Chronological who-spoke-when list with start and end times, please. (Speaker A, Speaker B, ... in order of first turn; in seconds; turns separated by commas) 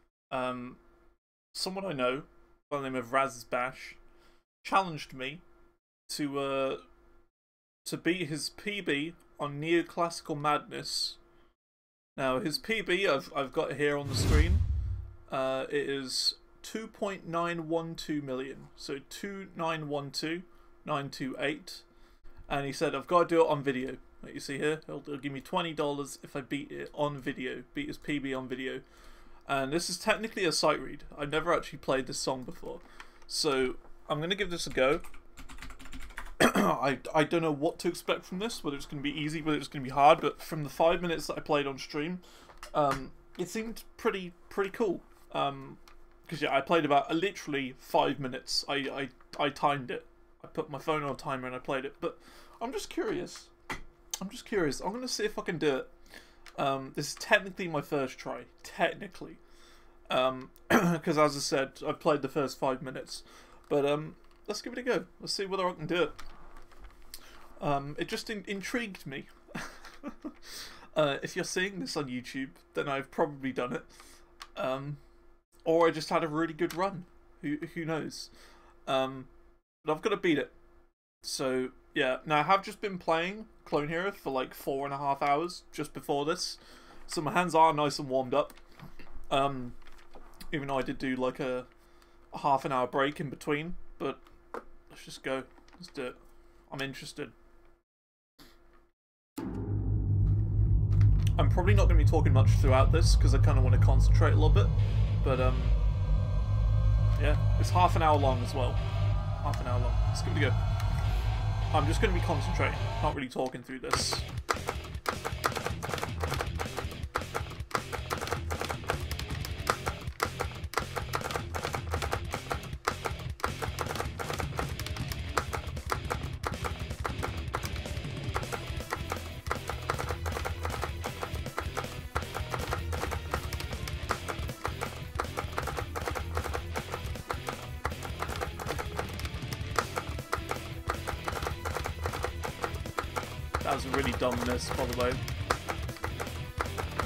Speaker A: 0.3-0.8, Speaker A: 1.5-4.0, Speaker A: 4.6-5.4, Speaker A: 6.1-6.8, Speaker A: 7.8-11.2, Speaker A: 12.2-14.6, Speaker A: 15.3-21.8, Speaker A: 22.5-28.8, Speaker A: 29.5-35.0, Speaker A: 36.4-42.2, Speaker A: 42.7-53.5, Speaker A: 54.2-55.9, Speaker A: 56.6-59.4, Speaker A: 60.1-66.2, Speaker A: 67.6-73.9, Speaker A: 74.5-75.0, Speaker A: 75.6-78.3, Speaker A: 78.8-79.3, Speaker A: 79.8-80.5, Speaker A: 81.2-88.6, Speaker A: 89.3-89.8, Speaker A: 90.5-91.7, Speaker A: 92.3-94.2, Speaker A: 94.9-96.2, Speaker A: 96.7-97.3, Speaker A: 101.4-105.8, Speaker A: 107.2-108.8, Speaker A: 109.4-110.6, Speaker A: 111.7-114.2, Speaker A: 143.6-145.2